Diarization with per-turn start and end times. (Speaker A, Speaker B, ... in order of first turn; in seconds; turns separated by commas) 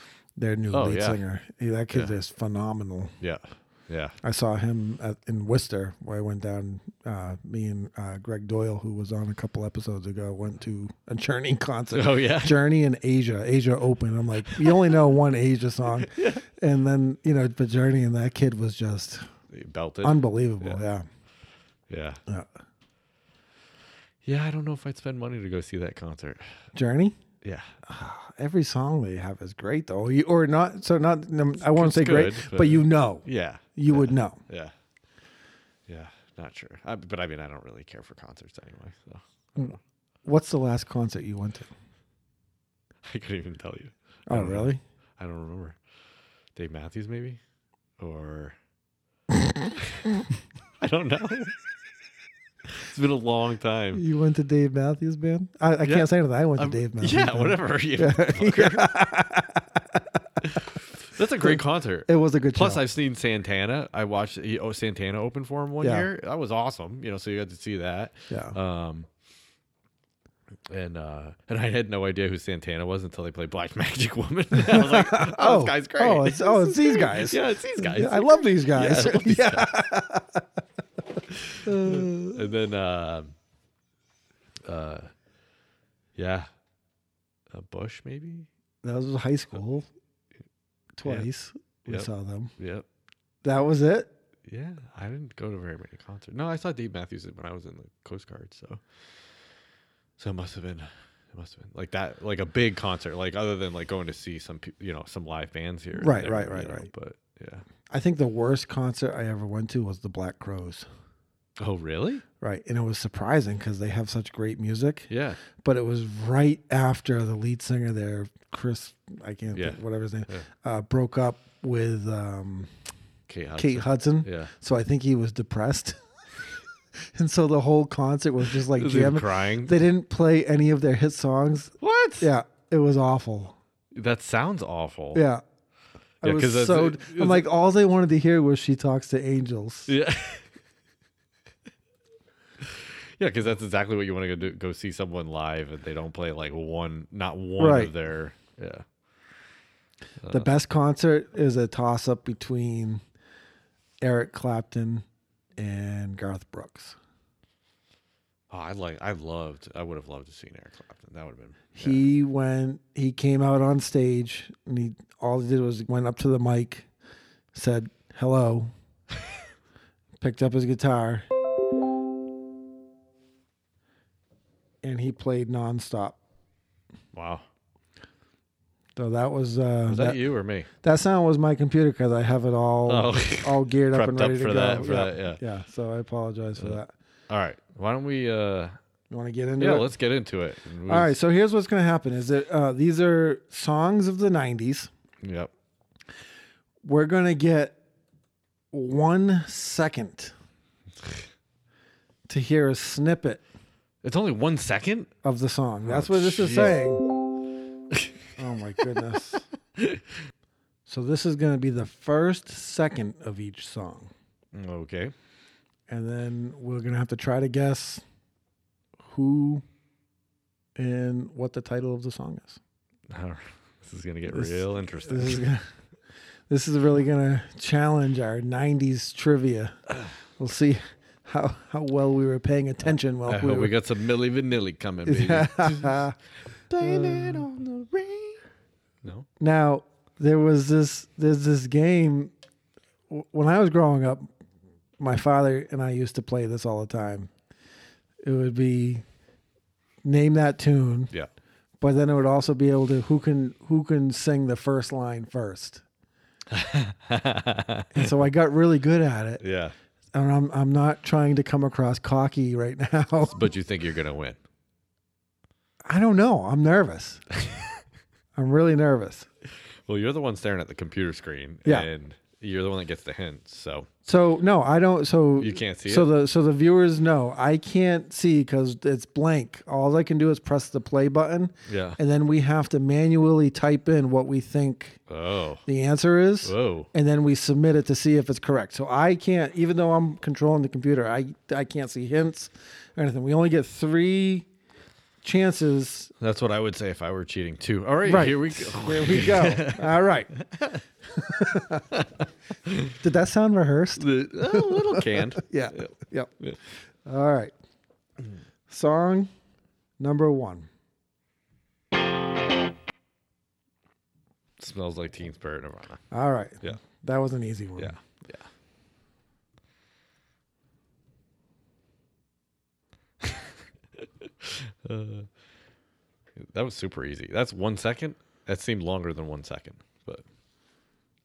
Speaker A: 0.4-3.1, Speaker B: 0.7-1.2, Speaker B: 3.2-4.2, Speaker A: 4.2-19.2, Speaker B: 11.9-12.6, Speaker B: 14.4-14.9, Speaker B: 15.9-16.4, Speaker B: 19.5-20.8, Speaker A: 20.0-21.1, Speaker B: 21.9-22.2, Speaker B: 24.2-26.5, Speaker A: 26.7-27.2, Speaker B: 27.4-27.7, Speaker A: 27.8-34.4, Speaker B: 31.6-34.7, Speaker B: 35.9-39.8, Speaker A: 39.6-41.7, Speaker B: 43.0-45.8, Speaker A: 44.3-44.8, Speaker B: 46.5-47.4, Speaker B: 48.0-48.5, Speaker B: 50.8-51.5, Speaker B: 52.7-54.0, Speaker A: 53.9-60.0, Speaker B: 55.8-58.9, Speaker B: 60.5-69.1, Speaker A: 62.1-62.8, Speaker A: 65.8-66.1, Speaker A: 68.3-68.5, Speaker B: 70.7-79.7, Speaker A: 74.5-80.4, Speaker B: 81.3-83.3, Speaker A: 81.6-82.4, Speaker B: 84.7-85.1, Speaker B: 86.2-86.5, Speaker B: 87.5-88.5, Speaker A: 88.8-89.9, Speaker A: 91.0-92.5, Speaker B: 91.9-92.8, Speaker A: 93.4-94.1, Speaker B: 94.5-98.8, Speaker B: 100.2-107.6, Speaker A: 105.9-106.9, Speaker A: 107.9-110.9, Speaker B: 111.6-112.2, Speaker A: 112.4-122.7, Speaker B: 115.1-115.4, Speaker B: 119.5-120.4, Speaker B: 123.3-124.5, Speaker A: 123.6-126.0, Speaker A: 127.1-133.6, Speaker B: 128.6-129.7, Speaker B: 131.8-132.3, Speaker B: 133.9-135.2, Speaker A: 135.1-135.4, Speaker A: 136.2-139.9, Speaker B: 136.2-137.5, Speaker B: 139.9-140.5, Speaker B: 142.6-148.8, Speaker A: 147.6-147.9, Speaker B: 150.2-150.5, Speaker A: 150.3-153.0, Speaker A: 154.0-155.0, Speaker A: 155.6-157.0, Speaker B: 158.5-162.0, Speaker A: 161.7-166.9, Speaker A: 167.5-168.7, Speaker A: 170.2-171.2, Speaker A: 174.8-176.2, Speaker B: 177.1-177.4, Speaker A: 178.9-180.2, Speaker B: 179.9-180.7, Speaker A: 180.7-186.9, Speaker B: 182.8-185.4, Speaker B: 186.6-188.7, Speaker A: 189.1-189.9, Speaker B: 189.6-191.1, Speaker A: 190.9-194.9, Speaker B: 195.2-195.5, Speaker A: 196.8-197.8, Speaker A: 198.7-200.3, Speaker A: 202.3-203.4, Speaker B: 204.0-205.1, Speaker A: 205.2-207.0, Speaker B: 205.8-206.8, Speaker A: 208.4-209.4, Speaker A: 210.8-214.1, Speaker B: 214.5-215.1, Speaker A: 215.9-218.0, Speaker A: 219.1-219.6, Speaker A: 220.8-222.6, Speaker B: 223.1-225.5, Speaker A: 224.3-225.7, Speaker A: 226.5-229.8, Speaker A: 230.4-233.7, Speaker B: 232.8-236.0, Speaker A: 235.1-236.1, Speaker B: 236.7-238.4, Speaker A: 236.8-237.4, Speaker A: 239.4-242.3, Speaker A: 243.1-244.3, Speaker A: 245.0-247.3, Speaker A: 248.2-249.0, Speaker A: 250.0-251.1, Speaker A: 251.8-255.8, Speaker B: 256.5-258.1, Speaker A: 257.9-259.4, Speaker B: 259.4-259.7, Speaker A: 260.1-263.4, Speaker B: 263.2-264.4, Speaker A: 265.9-267.2, Speaker A: 268.3-269.3, Speaker B: 269.9-273.9, Speaker A: 274.1-285.0, Speaker B: 275.4-276.1, Speaker B: 281.7-282.0, Speaker B: 285.1-285.6, Speaker A: 285.6-294.5, Speaker B: 286.4-286.9, Speaker A: 295.2-296.1, Speaker B: 296.2-300.8, Speaker A: 298.0-300.3, Speaker A: 301.2-301.9, Speaker B: 302.6-302.9, Speaker A: 303.0-306.3, Speaker B: 304.0-306.6, Speaker A: 307.0-307.5, Speaker A: 308.7-309.3, Speaker A: 310.0-310.7, Speaker B: 314.6-316.0, Speaker A: 316.1-317.9, Speaker B: 317.8-318.5, Speaker B: 323.2-325.3, Speaker B: 326.4-330.2